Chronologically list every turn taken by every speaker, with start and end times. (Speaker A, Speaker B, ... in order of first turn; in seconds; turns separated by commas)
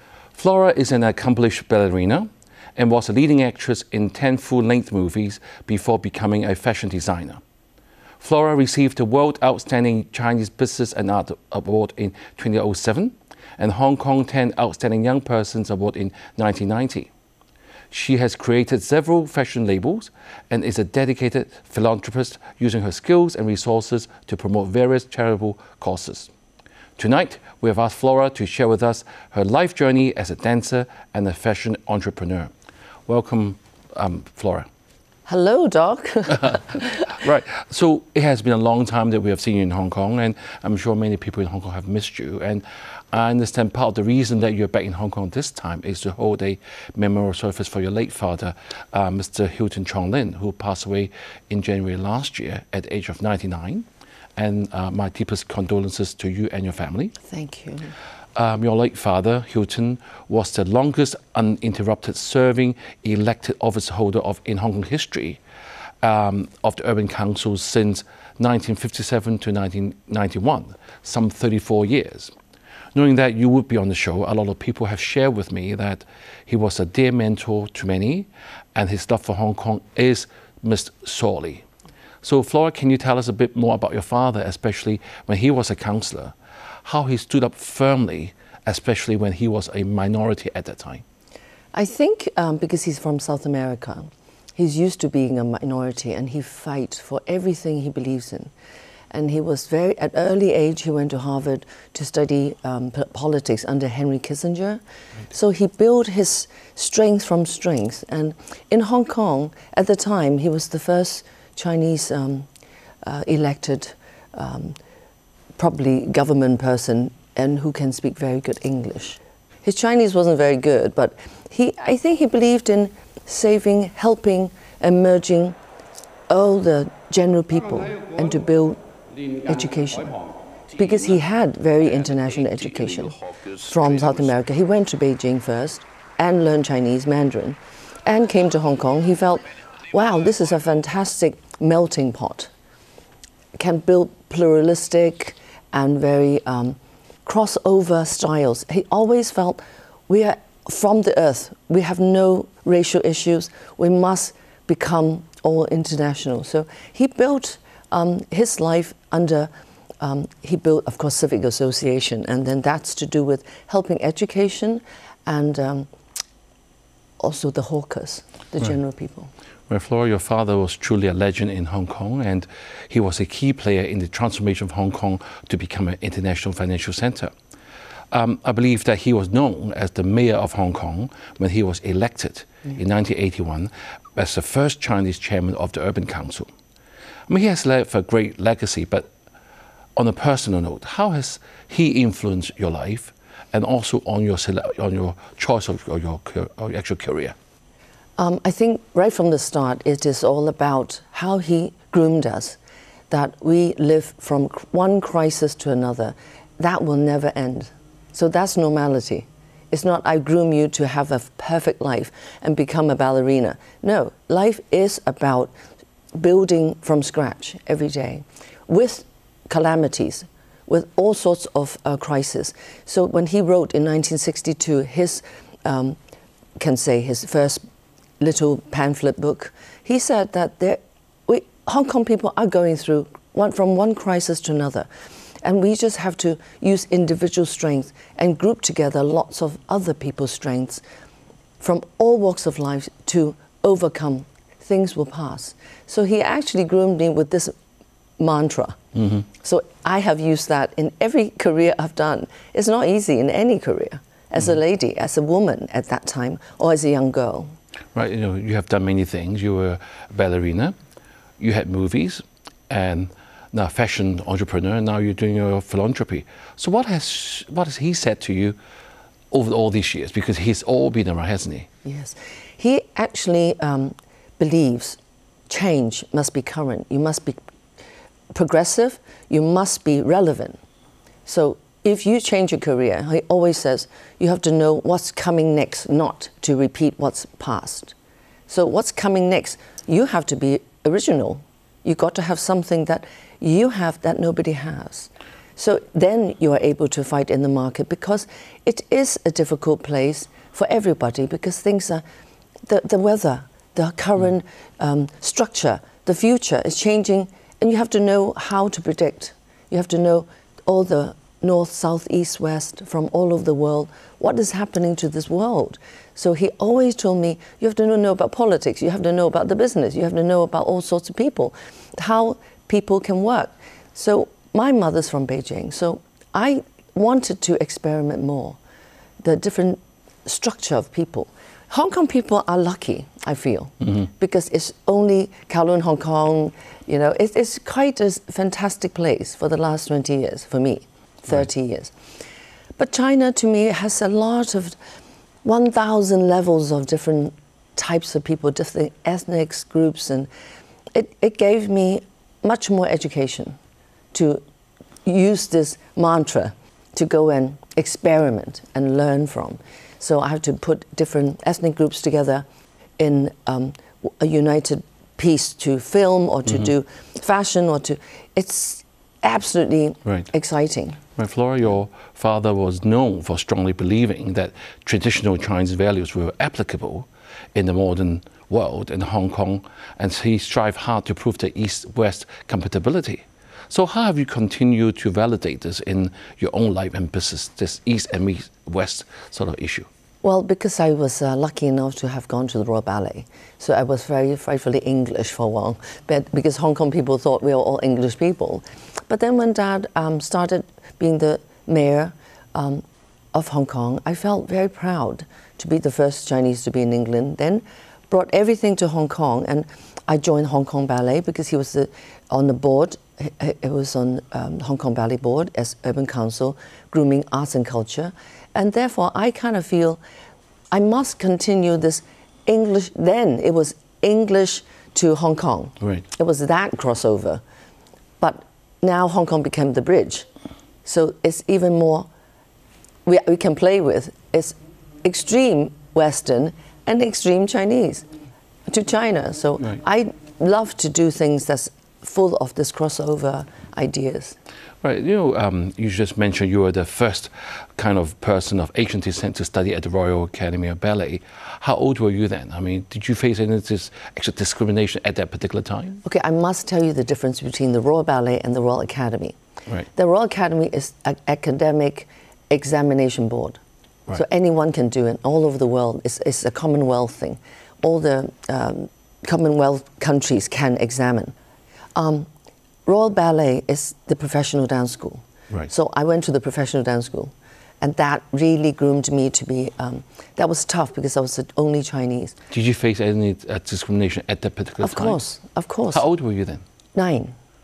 Speaker A: 0.3-7.4, Speaker A: 8.2-17.1, Speaker A: 17.9-26.3, Speaker A: 27.0-32.5, Speaker A: 33.1-34.7, Speaker B: 35.3-37.2, Speaker A: 36.4-53.9, Speaker A: 54.4-57.1, Speaker B: 57.3-57.9, Speaker A: 58.4-65.4, Speaker A: 66.0-72.3, Speaker A: 72.9-81.7, Speaker A: 82.2-86.3, Speaker A: 86.8-91.0, Speaker B: 91.7-98.5, Speaker B: 99.1-112.5, Speaker B: 113.0-114.8, Speaker B: 115.6-125.6, Speaker B: 126.3-130.2, Speaker B: 130.7-142.5, Speaker B: 143.6-165.9, Speaker B: 167.2-169.3, Speaker A: 169.7-177.3, Speaker A: 178.1-186.5, Speaker A: 187.3-189.1, Speaker A: 190.0-197.3, Speaker B: 198.2-202.6, Speaker B: 203.1-215.5, Speaker B: 216.2-226.0, Speaker B: 226.6-227.6, Speaker B: 228.2-234.9, Speaker B: 235.4-240.8, Speaker B: 241.6-247.5, Speaker B: 248.2-248.8, Speaker B: 249.3-257.6, Speaker A: 257.9-260.7, Speaker A: 261.4-268.6, Speaker A: 269.3-271.7, Speaker B: 271.9-277.4, Speaker B: 278.3-280.6, Speaker B: 281.3-287.9, Speaker B: 288.5-302.0, Speaker B: 302.7-328.6, Speaker B: 329.2-341.9, Speaker B: 342.8-344.8, Speaker B: 345.4-350.3, Speaker B: 350.9-353.6, Speaker B: 354.1-354.4, Speaker B: 355.1-362.4, Speaker B: 363.0-371.0, Speaker A: 371.2-389.9, Speaker B: 390.2-420.0, Speaker B: 420.7-427.4, Speaker B: 428.2-430.3, Speaker B: 430.9-432.1, Speaker B: 433.1-438.1, Speaker B: 438.7-444.4, Speaker A: 444.8-456.0, Speaker B: 456.0-459.4, Speaker B: 459.9-463.6, Speaker B: 464.1-471.3, Speaker B: 472.0-472.3, Speaker B: 472.9-482.4, Speaker A: 482.5-485.2, Speaker B: 484.8-486.0, Speaker A: 485.9-486.6, Speaker B: 486.9-487.4